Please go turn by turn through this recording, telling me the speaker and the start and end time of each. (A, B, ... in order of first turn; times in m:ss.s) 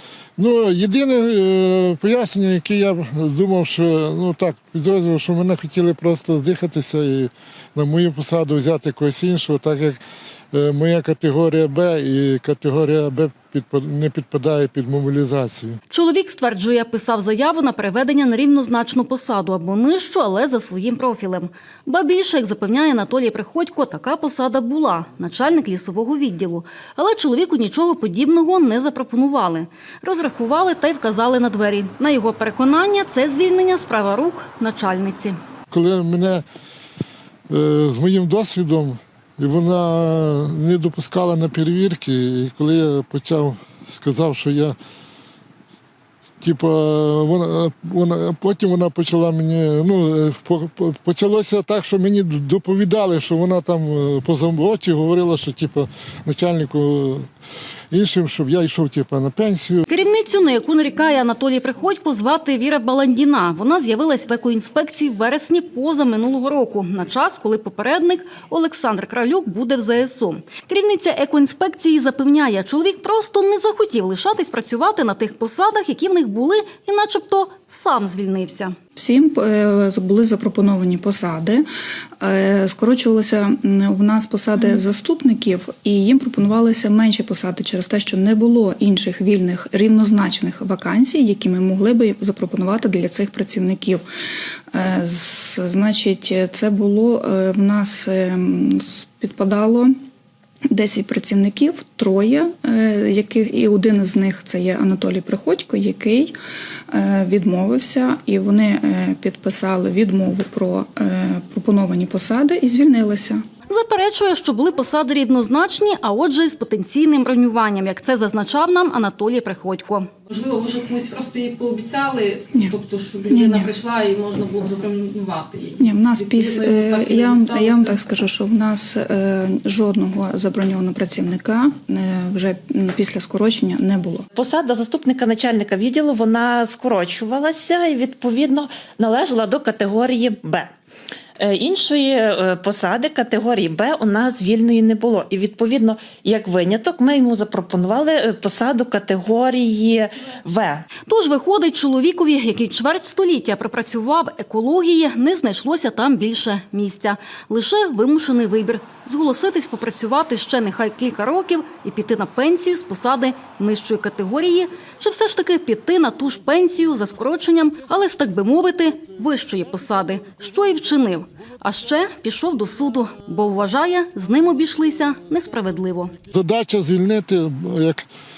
0:00.4-0:10.0 A
0:10.5-0:15.8 A
0:15.9-0:35.4 B
0:35.7-0:36.4 A
0:37.5-0:44.8 A
0:46.5-0:57.3 A
0:57.9-0:59.8 A
0:59.9-1:18.7 B
1:19.0-1:21.6 C
1:22.2-1:34.0 C
1:34.7-1:39.9 C
1:40.7-1:46.3 C
1:46.9-1:53.4 C
1:53.7-2:00.1 B
2:00.3-2:08.0 D
2:03.3-2:03.7 C
2:05.8-2:14.2 C
2:14.3-2:20.7 E
2:21.4-2:30.8 E
2:31.1-2:56.1 B
2:56.4-2:58.0 A